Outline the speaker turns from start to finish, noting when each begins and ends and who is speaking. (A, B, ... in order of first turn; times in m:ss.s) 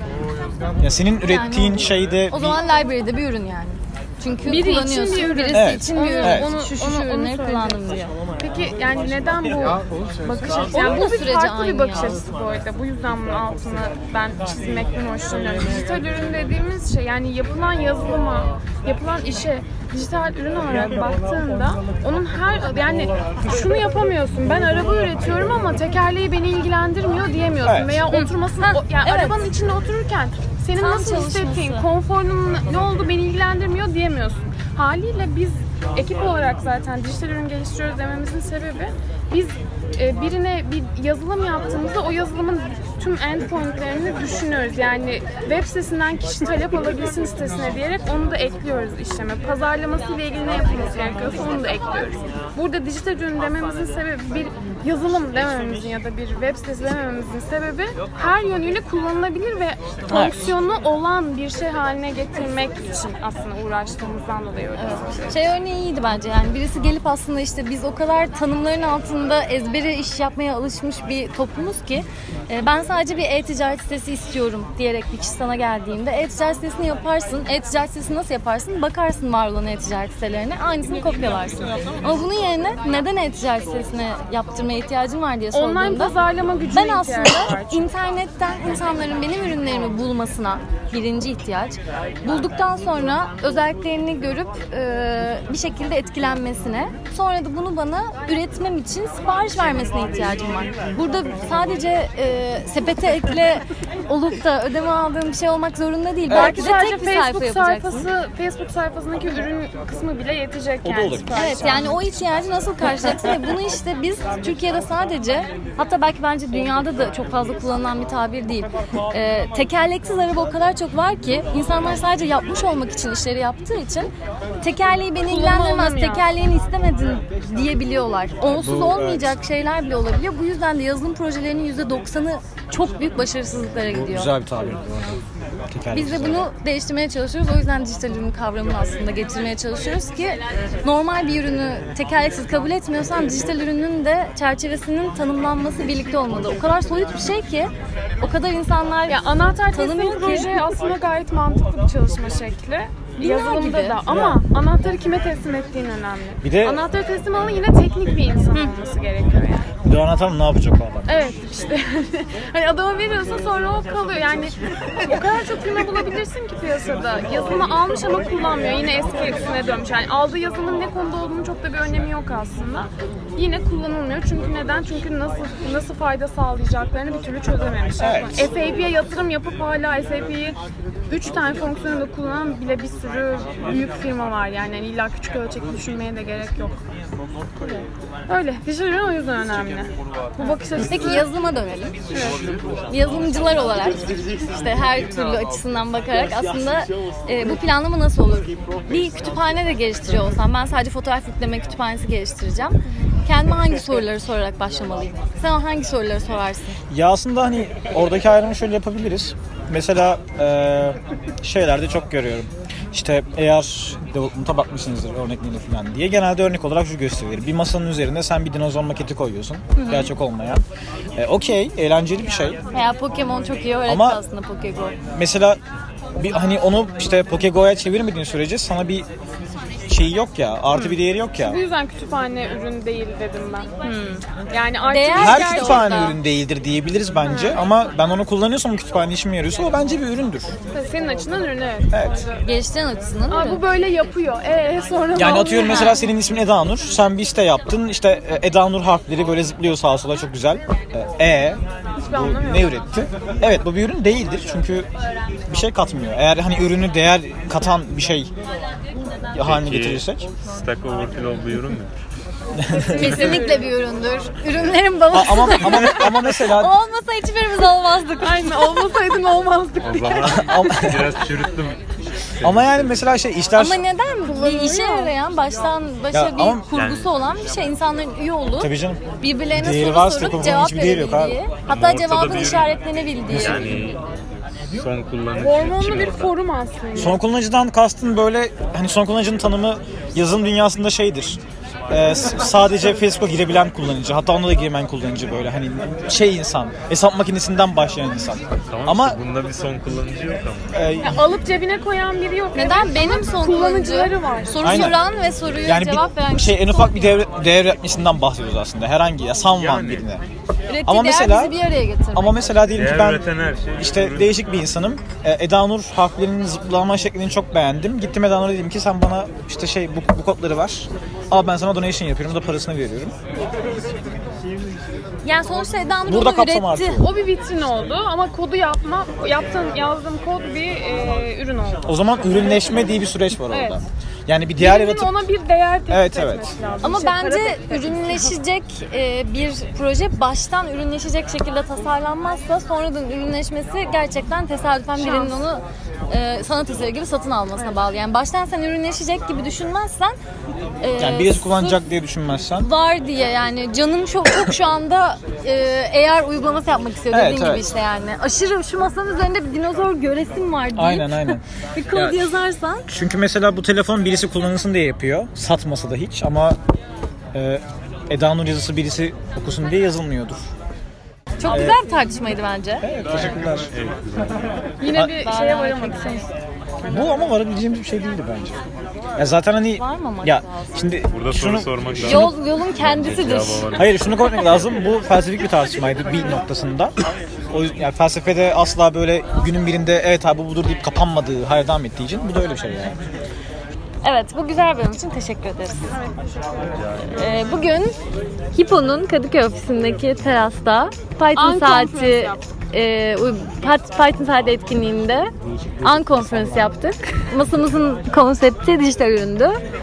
0:00.8-0:02.6 A
0:01.2-0:08.1 B
0:04.4-1:05.4 C
0:05.5-0:06.6 A
0:10.6-0:12.2 B
0:27.6-0:28.0 A
0:28.1-0:29.4 B
0:30.7-0:31.9 B
1:00.1-1:00.5 A
1:04.8-1:26.2 B
1:25.5-1:27.9 C
1:26.7-1:48.1 B
1:46.3-1:46.7 A
1:46.3-1:52.0 C
1:50.8-1:51.9 A
1:51.3-2:04.1 B
2:04.6-2:14.3 B
2:05.3-2:06.3 C
2:08.5-2:09.4 A
2:13.9-2:15.2 A
2:15.7-2:16.5 A
2:15.9-2:30.7 B
2:29.1-2:39.7 C
2:33.2-2:34.0 B
2:34.1-2:34.4 A
2:36.4-2:36.8 A
2:39.8-2:41.3 A
2:41.1-3:00.6 C
2:58.0-2:58.5 A
3:01.1-3:06.8 C
3:07.6-3:11.3 C
3:10.8-3:12.0 B
3:12.1-3:12.4 C
3:12.9-3:26.8 B
3:26.9-3:40.6 A
3:39.7-3:40.1 B
3:41.2-3:42.6 A
3:42.7-3:45.0 B
3:43.9-3:44.2 A
3:45.1-3:45.6 A
3:46.2-3:49.1 A
3:49.9-3:51.6 A
3:51.4-3:53.8 C
3:53.8-3:54.2 B
3:54.5-3:56.2 C
3:54.9-3:56.2 B
3:55.2-4:00.5 A
3:57.3-3:57.6 C
4:00.7-4:02.4 C
4:01.9-4:02.3 A
4:02.4-4:03.6 B
4:03.3-4:06.0 C
4:05.2-4:14.9 A
4:05.6-4:06.0 B
4:12.0-4:12.8 C
4:15.5-4:18.3 A
4:19.3-4:20.3 A
4:19.4-4:21.9 D
4:22.6-4:23.1 A
4:22.7-4:23.8 C
4:22.9-4:28.7 B
4:23.0-4:23.4 D
4:25.1-4:26.7 A
4:28.2-4:30.9 C
4:29.8-4:31.8 D
4:30.3-4:31.2 A
4:32.4-4:33.1 D
4:32.4-4:33.8 A
4:33.6-4:43.7 B
4:34.2-4:35.2 C
4:36.1-4:36.7 A
4:36.7-4:37.2 D
4:38.6-4:41.4 A
4:41.7-4:46.4 D
4:43.6-4:43.9 A
4:45.4-4:47.2 C
4:46.9-4:59.2 A
4:58.5-5:00.8 D
5:00.7-5:01.2 A
5:01.0-5:04.9 C
5:02.5-5:07.2 B
5:04.6-5:05.0 A
5:05.6-5:10.2 A
5:09.6-5:10.1 D
5:10.7-5:12.6 B
5:10.9-5:11.6 A
5:12.1-5:23.2 A
5:12.7-5:14.7 D
5:25.2-5:27.0 B
5:26.1-5:27.1 A
5:26.9-5:33.0 C
5:31.9-5:35.2 A
5:33.5-5:33.8 C
5:34.6-5:38.4 C
5:35.9-5:36.6 A
5:36.8-5:50.2 B
5:45.0-5:45.4 C
5:50.8-5:51.8 B
5:51.0-5:52.7 A
5:52.6-6:02.9 B
5:57.1-5:57.7 A
6:00.8-6:02.3 A
6:02.9-6:06.6 A
6:07.3-6:10.5 A
6:11.4-6:11.8 A
6:11.4-6:12.9 B
6:12.8-6:13.7 A
6:13.0-6:14.7 D
6:14.8-6:16.3 C
6:14.9-6:16.3 B
6:16.8-6:18.6 A
6:19.2-6:22.4 A
6:19.8-6:20.9 B
6:21.1-6:24.8 D
6:22.0-6:23.7 B
6:23.7-6:26.9 A
6:27.5-6:33.0 A
6:34.0-6:35.9 B
6:35.9-6:36.8 C
6:36.7-6:37.2 D
6:37.1-6:38.0 B
6:38.6-6:49.6 B
6:41.4-6:42.4 C